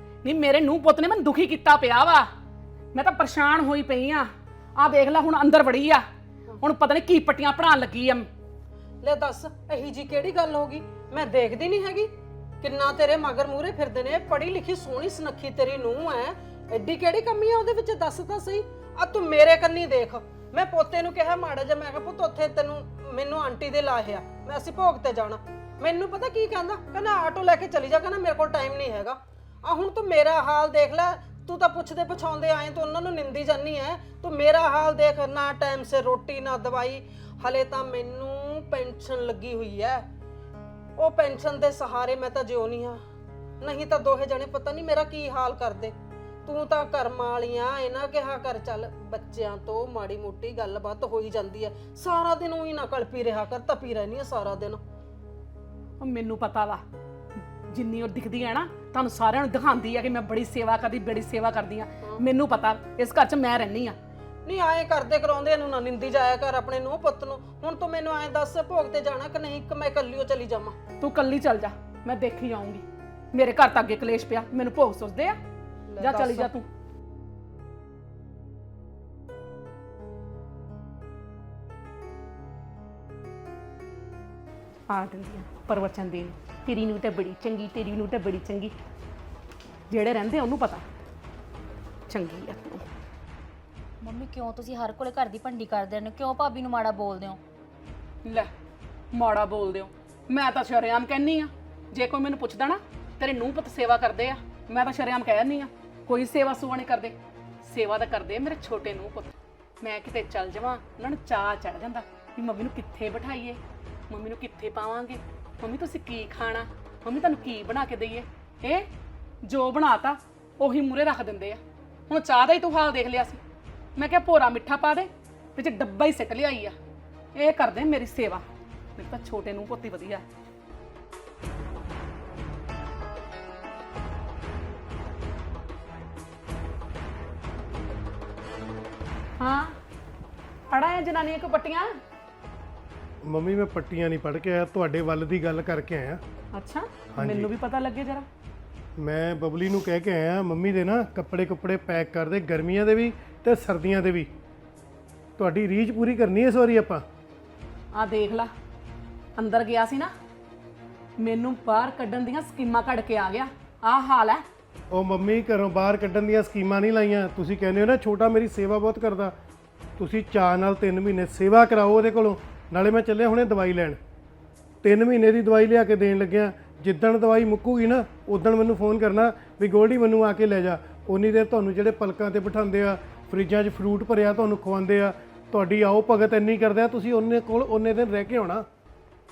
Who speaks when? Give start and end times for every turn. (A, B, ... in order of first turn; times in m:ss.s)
0:00.2-0:02.3 A
0:02.9-0:06.0 A
0:06.6-0:08.3 A
0:09.0-0:40.0 B
0:41.0-0:43.0 B
0:43.6-0:54.8 B
0:56.0-0:56.8 A
0:57.7-1:04.0 A
1:04.4-1:10.8 B
1:11.0-1:15.4 A
1:15.9-1:16.5 B
1:16.0-1:16.6 A
1:24.9-1:28.7 A
1:29.9-1:30.8 A
1:32.1-1:32.9 A
1:34.0-1:37.4 C
1:39.1-1:53.6 A
1:54.1-1:58.9 A
1:59.4-2:03.4 A
2:04.0-2:06.7 A
2:07.4-2:08.4 A
2:09.0-2:10.2 A
2:19.4-2:19.8 A
2:20.7-2:21.9 A
2:23.2-2:26.2 D
2:26.5-2:28.3 A
2:27.1-2:27.5 D
2:29.0-2:34.3 D
2:35.4-2:37.0 D
2:37.9-2:38.5 A
2:39.4-2:40.1 A
2:41.2-2:44.4 A
2:44.9-2:49.3 D
2:50.0-2:54.0 D
2:54.8-3:08.6 D